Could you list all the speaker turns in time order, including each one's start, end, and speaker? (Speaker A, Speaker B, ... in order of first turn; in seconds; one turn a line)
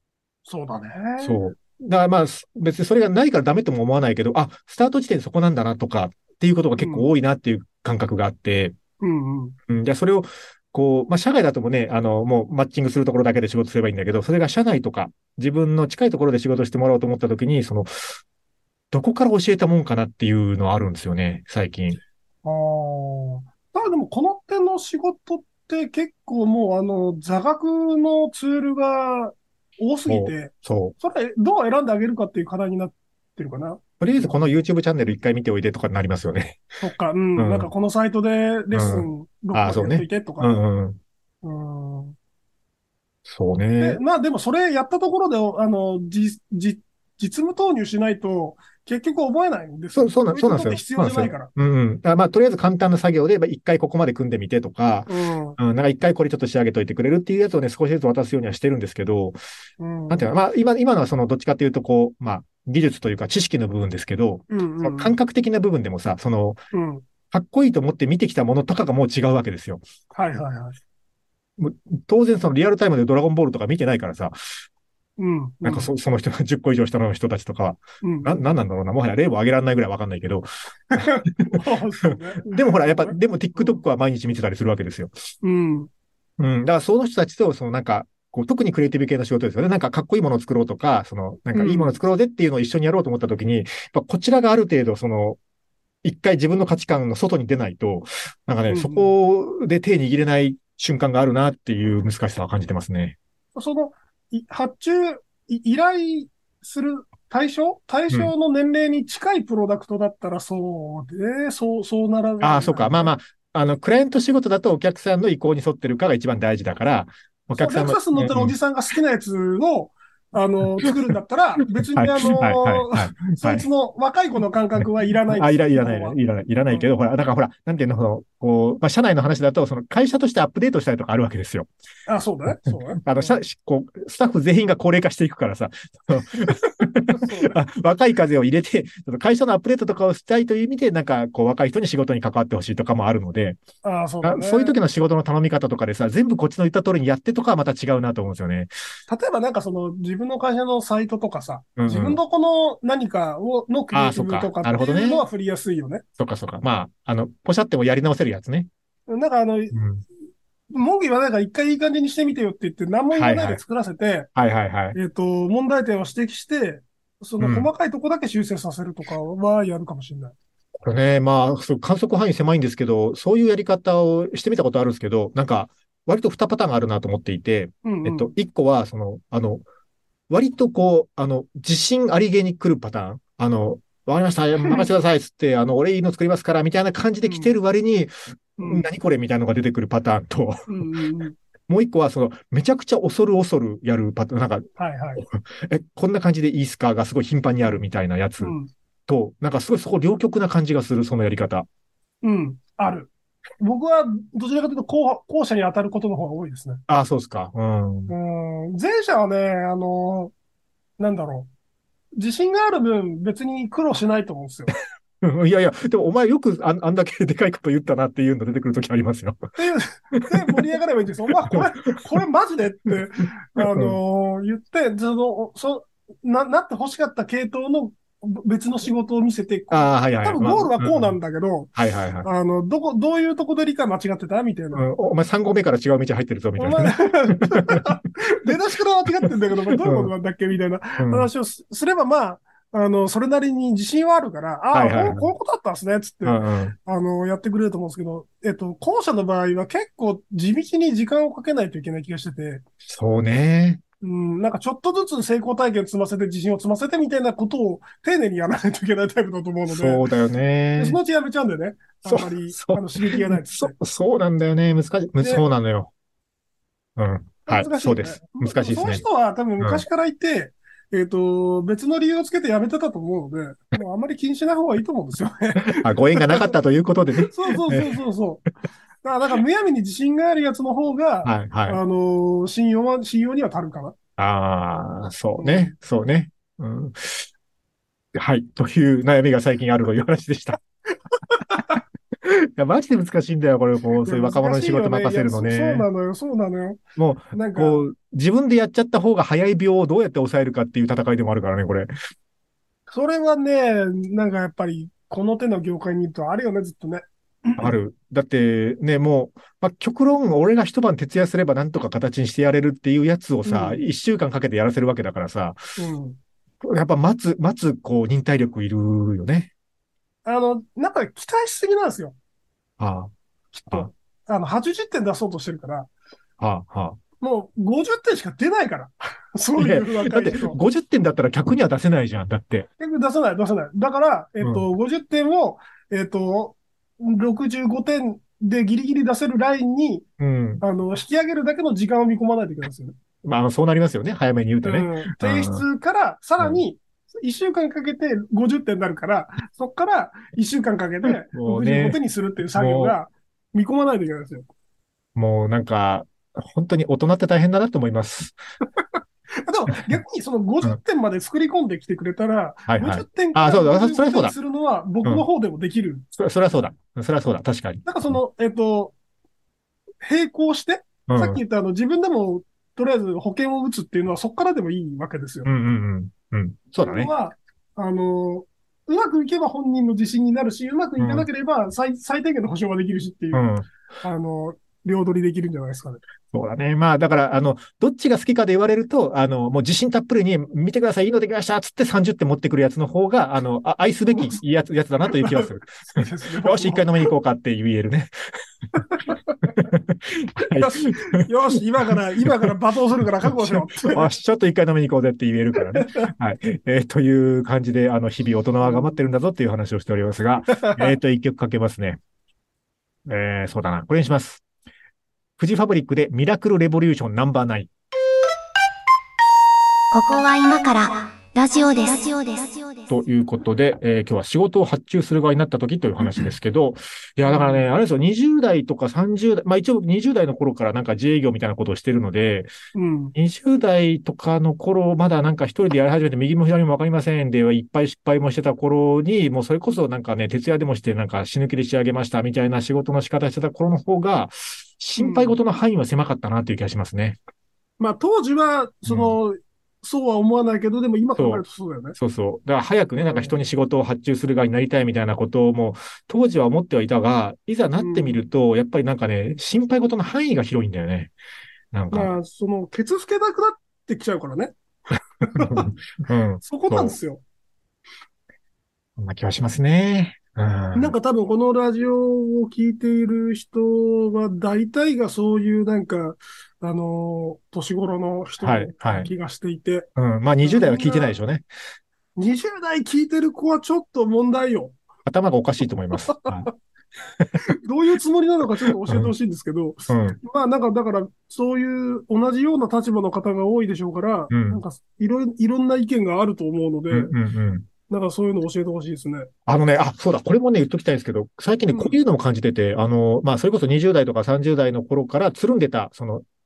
Speaker A: 0.5-1.4
Speaker B: 1.2-8.8
Speaker A: 6.8-7.1
Speaker A: 9.0-9.6
Speaker B: 9.7-18.2
Speaker B: 18.9-22.0
Speaker A: 22.4-34.4
Speaker B: 30.1-30.9
Speaker B: 34.0-36.6
Speaker A: 36.8-40.6
Speaker B: 37.4-37.7
Speaker B: 38.7-41.0
Speaker A: 41.4-42.1
Speaker B: 43.2-44.0
Speaker A: 43.8-51.5
Speaker B: 50.0-59.4
Speaker A: 55.1-55.6
Speaker A: 59.8-60.3
Speaker B: 60.1-66.6
Speaker A: 64.5-65.2
Speaker A: 66.7-67.0
Speaker B: 67.3-69.8
Speaker A: 70.1-70.8
Speaker B: 71.6-74.3
Speaker A: 75.2-75.9
Speaker B: 75.6-80.5
Speaker A: 78.0-78.4
Speaker A: 80.9-83.8
Speaker B: 81.0-81.6
Speaker B: 82.4-85.1
Speaker A: 85.4-85.9
Speaker B: 86.4-95.4
Speaker A: 91.5-92.0
Speaker B: 96.0-103.2
Speaker A: 98.7-99.1
Speaker A: 103.5-113.1
Speaker B: 112.4-118.6
Speaker A: 117.5-126.9
Speaker B: 121.9-123.7
Speaker B: 124.8-131.7
Speaker A: 132.1-133.4
Speaker B: 132.7-143.6
Speaker A: 137.1-137.6
Speaker A: 143.8-144.8
Speaker B: 144.2-148.7
Speaker A: 149.1-156.0
Speaker B: 151.8-152.2
Speaker B: 153.9-155.2
Speaker B: 156.2-158.7
Speaker A: 159.1-159.8
Speaker B: 159.7-160.0
Speaker A: 160.7-164.3
Speaker B: 163.1-163.6
Speaker B: 164.3-165.0
Speaker A: 164.9-170.3
Speaker B: 167.4-167.7
Speaker B: 170.8-179.6
Speaker A: 177.8-178.3
Speaker B: 180.3-190.7
Speaker A: 184.6-184.9
Speaker A: 187.2-187.5
Speaker A: 188.6-188.9
Speaker A: 190.7-191.4
Speaker B: 191.7-194.7
Speaker A: 194.8-195.2
Speaker B: 195.2-198.5
Speaker A: 198.4-198.7
Speaker B: 199.1-201.7
Speaker A: 202.2-203.1
Speaker A: 203.6-206.8
Speaker B: 206.9-208.1
Speaker A: 208.1-210.3
Speaker A: 211.0-211.5
Speaker A: 212.2-214.7
Speaker B: 215.2-219.4
Speaker A: 219.6-231.7
Speaker B: 221.5-222.0
Speaker B: 223.6-224.0
Speaker B: 229.7-231.2
Speaker B: 231.7-232.3
Speaker A: 232.2-234.8
Speaker B: 234.7-237.9
Speaker A: 236.6-252.6
Speaker B: 239.8-240.1
Speaker B: 241.0-241.3
Speaker B: 244.7-245.3
Speaker B: 246.2-246.7
Speaker B: 252.9-253.8
Speaker A: 254.0-260.0
Speaker B: 259.7-261.0
Speaker A: 260.8-263.7
Speaker B: 262.0-265.9
Speaker B: 267.0-269.0
Speaker A: 267.5-276.5
Speaker B: 269.6-269.8
Speaker B: 275.6-277.9
Speaker A: 277.2-278.4
Speaker A: 279.0-283.9
Speaker B: 281.2-281.8
Speaker B: 284.2-287.3
Speaker A: 285.4-285.7
Speaker B: 288.1-290.6
Speaker A: 291.1-291.8
Speaker B: 292.2-295.9
Speaker A: 294.0-296.8
Speaker B: 297.0-301.9
Speaker A: 297.3-297.8
Speaker A: 302.9-307.7
Speaker B: 307.6-315.6
Speaker A: 313.4-313.8
Speaker A: 315.8-316.2
Speaker B: 316.6-319.5
Speaker A: 320.2-322.1
Speaker B: 322.8-323.1
Speaker A: 323.5-325.9
Speaker B: 326.4-327.0
Speaker A: 327.2-330.6
Speaker B: 329.6-332.7
Speaker A: 332.8-340.1
Speaker B: 334.4-334.7
Speaker B: 340.2-340.6
Speaker A: 340.6-342.9
Speaker B: 343.2-345.6
Speaker A: 344.6-354.5
Speaker B: 346.4-346.6
Speaker B: 351.3-352.0
Speaker B: 352.5-353.0
Speaker B: 355.1-358.4
Speaker A: 359.4-366.0
Speaker B: 362.7-364.4
Speaker B: 366.1-368.2
Speaker A: 367.9-368.9
Speaker A: 370.0-375.5
Speaker B: 371.1-371.4
Speaker B: 375.4-377.1
Speaker A: 376.8-383.5
Speaker B: 381.0-381.3
Speaker B: 383.3-383.7
Speaker A: 384.0-386.0
Speaker B: 386.3-398.3
Speaker A: 394.1-394.4
Speaker A: 395.2-397.1
Speaker A: 398.8-399.6
Speaker B: 399.0-401.2
Speaker A: 400.4-404.1
Speaker B: 403.3-412.0
Speaker A: 405.7-406.1
Speaker A: 408.6-409.0
Speaker A: 410.5-410.9
Speaker B: 413.1-414.4
Speaker B: 415.4-417.7
Speaker C: 419.9-422.9
Speaker B: 422.9-432.5
Speaker A: 427.3-427.6
Speaker A: 432.7-433.1
Speaker B: 433.1-447.2
Speaker A: 445.0-445.4
Speaker A: 447.8-451.9
Speaker B: 448.9-449.1
Speaker B: 451.1-461.1
Speaker A: 452.9-453.4
Speaker A: 457.8-458.2
Speaker B: 461.7-462.1
Speaker A: 461.9-464.5
Speaker A: 465.2-465.7
Speaker B: 465.4-466.9
Speaker A: 466.4-467.2
Speaker B: 469.0-470.9
Speaker A: 470.7-479.9
Speaker B: 478.4-479.1
Speaker B: 479.9-481.4
Speaker A: 480.4-481.1
Speaker A: 482.1-484.8
Speaker B: 485.1-486.5
Speaker A: 486.1-486.5
Speaker A: 487.4-497.1
Speaker B: 488.9-489.1
Speaker B: 489.9-490.2
Speaker B: 494.3-494.6
Speaker B: 496.9-497.7
Speaker A: 497.9-499.3
Speaker B: 499.5-506.2
Speaker A: 501.7-502.0